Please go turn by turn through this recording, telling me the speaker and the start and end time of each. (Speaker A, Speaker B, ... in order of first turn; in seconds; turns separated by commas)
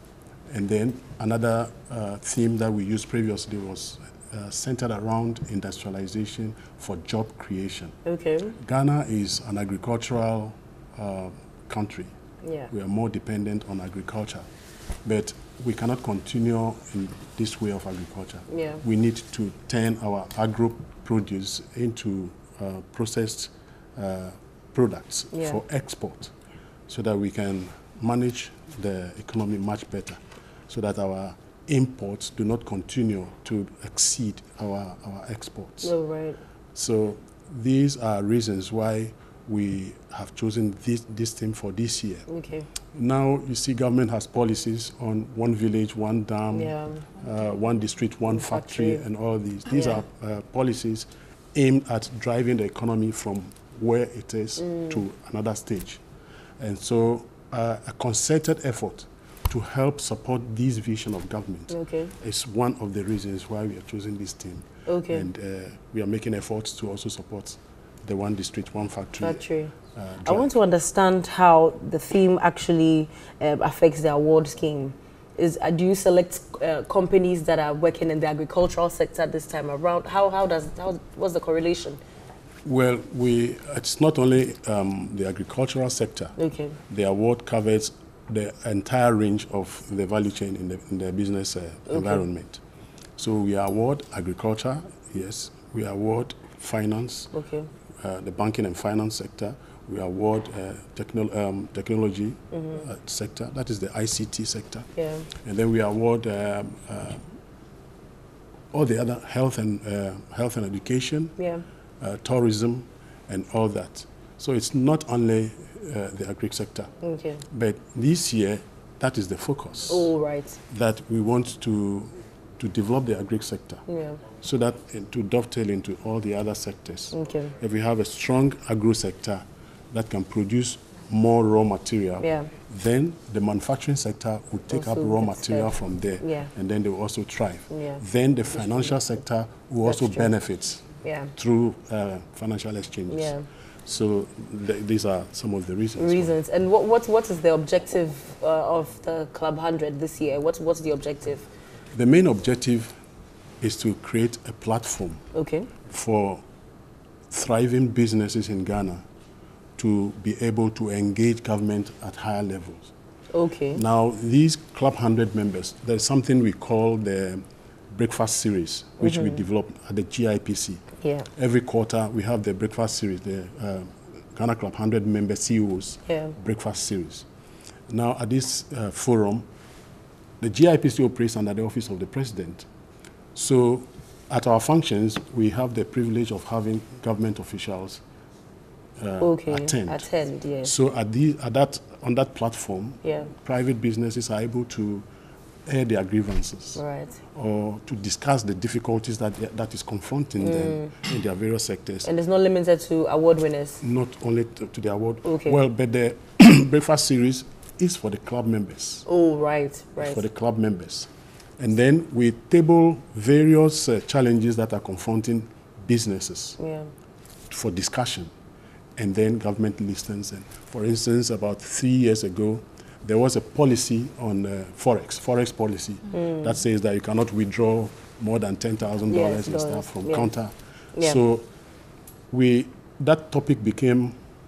Speaker A: 0.5-8.0, Speaker B: 8.1-8.6, Speaker A: 8.6-12.1, Speaker B: 12.4-12.7, Speaker A: 12.7-14.5, Speaker A: 15.1-26.3, Speaker B: 18.5-18.8, Speaker B: 25.3-25.6, Speaker A: 26.9-35.9, Speaker B: 35.8-36.4, Speaker A: 36.7-42.3, Speaker B: 42.3-42.7, Speaker A: 42.9-56.0, Speaker B: 46.5-47.1, Speaker B: 48.3-49.0, Speaker B: 49.7-50.0, Speaker B: 54.6-55.0, Speaker A: 56.6-70.5, Speaker B: 61.7-62.1, Speaker B: 64.9-65.3, Speaker B: 69.2-69.7, Speaker B: 70.2-82.0, Speaker A: 82.7-86.4, Speaker B: 86.4-86.8, Speaker A: 86.9-92.6, Speaker B: 91.9-92.2, Speaker A: 93.2-97.3, Speaker B: 97.3-97.7, Speaker A: 98.0-104.9, Speaker B: 102.5-102.8, Speaker B: 105.0-105.3, Speaker A: 105.4-107.3, Speaker A: 108.7-111.3, Speaker B: 111.4-111.6, Speaker A: 112.0-116.9, Speaker B: 117.0-117.4, Speaker A: 117.5-120.1, Speaker B: 119.9-120.6, Speaker A: 120.7-123.8, Speaker B: 123.9-124.2, Speaker A: 124.4-143.3, Speaker B: 127.1-127.5, Speaker B: 132.2-132.5, Speaker B: 134.7-136.5, Speaker B: 137.7-138.0, Speaker B: 138.5-139.0, Speaker B: 139.8-140.3, Speaker B: 141.0-141.3, Speaker B: 143.1-143.5, Speaker A: 143.9-146.4, Speaker B: 146.0-151.5, Speaker A: 151.9-153.0, Speaker A: 153.6-155.2, Speaker B: 155.3-155.7, Speaker A: 155.9-156.4, Speaker A: 157.3-159.0, Speaker A: 159.8-162.9, Speaker B: 163.3-163.8, Speaker A: 163.7-177.3, Speaker B: 169.0-169.4, Speaker B: 171.0-171.3, Speaker B: 176.1-176.3, Speaker A: 177.9-179.5, Speaker A: 180.4-182.7, Speaker A: 183.3-188.0, Speaker A: 189.0-190.1, Speaker B: 189.2-190.7, Speaker A: 190.6-195.1, Speaker B: 193.0-193.3, Speaker A: 195.7-196.8, Speaker B: 196.8-197.2, Speaker A: 197.3-202.1, Speaker B: 200.4-200.9, Speaker B: 202.0-203.8, Speaker A: 203.8-209.1, Speaker B: 205.2-205.6, Speaker B: 209.1-210.2, Speaker A: 210.0-216.6, Speaker B: 216.6-216.9, Speaker A: 217.5-218.3, Speaker A: 219.0-231.5, Speaker B: 226.1-226.6, Speaker B: 229.1-230.3, Speaker A: 232.3-234.2